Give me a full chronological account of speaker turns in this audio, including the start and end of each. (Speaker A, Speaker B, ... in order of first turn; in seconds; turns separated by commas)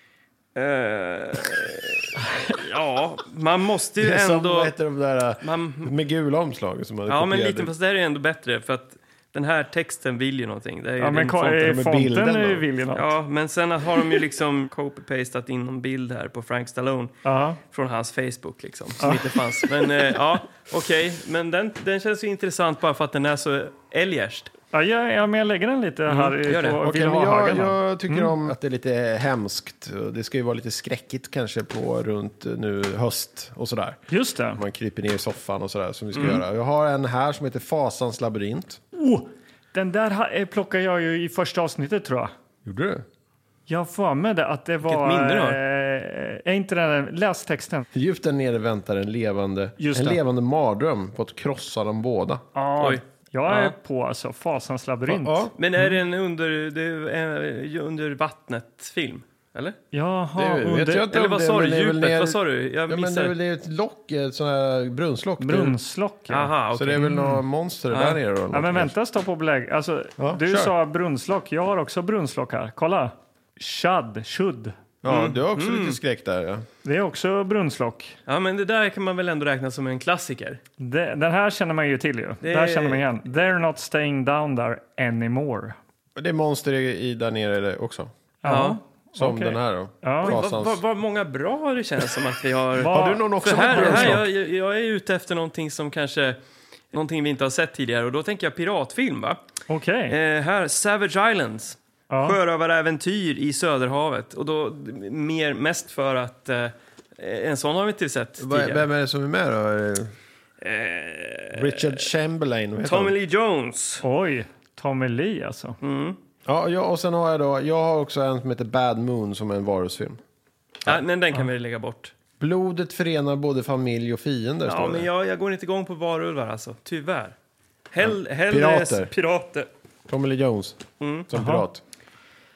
Speaker A: 0.5-4.7, Speaker B: 4.0-7.7, Speaker A: 5.4-5.9, Speaker A: 7.1-11.7, Speaker C: 11.0-13.1, Speaker B: 11.6-12.6, Speaker A: 12.9-24.5, Speaker C: 17.2-17.6, Speaker C: 19.0-19.3, Speaker C: 24.7-28.3, Speaker A: 26.1-26.8, Speaker B: 26.8-34.0, Speaker C: 34.1-34.6, Speaker B: 34.5-38.8, Speaker A: 36.1-36.4, Speaker C: 38.9-42.3, Speaker B: 42.6-43.0, Speaker C: 43.7-47.9, Speaker A: 44.8-45.6, Speaker B: 47.9-52.4, Speaker C: 49.8-50.2, Speaker C: 52.5-55.5, Speaker A: 52.8-53.7, Speaker B: 55.1-55.5, Speaker A: 55.6-59.8, Speaker C: 59.9-61.1, Speaker B: 60.4-65.8, Speaker A: 61.1-63.3, Speaker C: 65.4-67.4, Speaker A: 66.3-67.1, Speaker B: 66.7-68.9, Speaker A: 67.9-68.2, Speaker C: 68.5-74.8, Speaker B: 70.2-70.7, Speaker B: 75.0-76.7, Speaker A: 75.0-76.0, Speaker C: 76.8-78.2, Speaker A: 78.3-80.6, Speaker C: 80.8-85.8, Speaker A: 82.4-83.0, Speaker B: 86.2-88.1, Speaker C: 88.4-90.4, Speaker A: 88.5-88.8, Speaker B: 89.2-90.8, Speaker A: 90.2-96.4, Speaker C: 92.8-94.2, Speaker B: 92.9-94.3, Speaker A: 96.9-99.4, Speaker C: 99.7-100.1, Speaker A: 100.1-108.8, Speaker C: 102.1-102.4, Speaker B: 108.4-110.1, Speaker A: 110.6-112.0, Speaker B: 111.5-113.1, Speaker A: 112.8-114.0, Speaker C: 114.0-115.8, Speaker A: 115.8-116.2, Speaker B: 116.5-120.2, Speaker A: 120.8-122.1, Speaker B: 122.4-125.1, Speaker A: 124.7-127.3, Speaker A: 127.9-129.7, Speaker B: 128.0-129.1, Speaker B: 130.1-131.8, Speaker A: 131.0-131.3, Speaker C: 131.3-131.7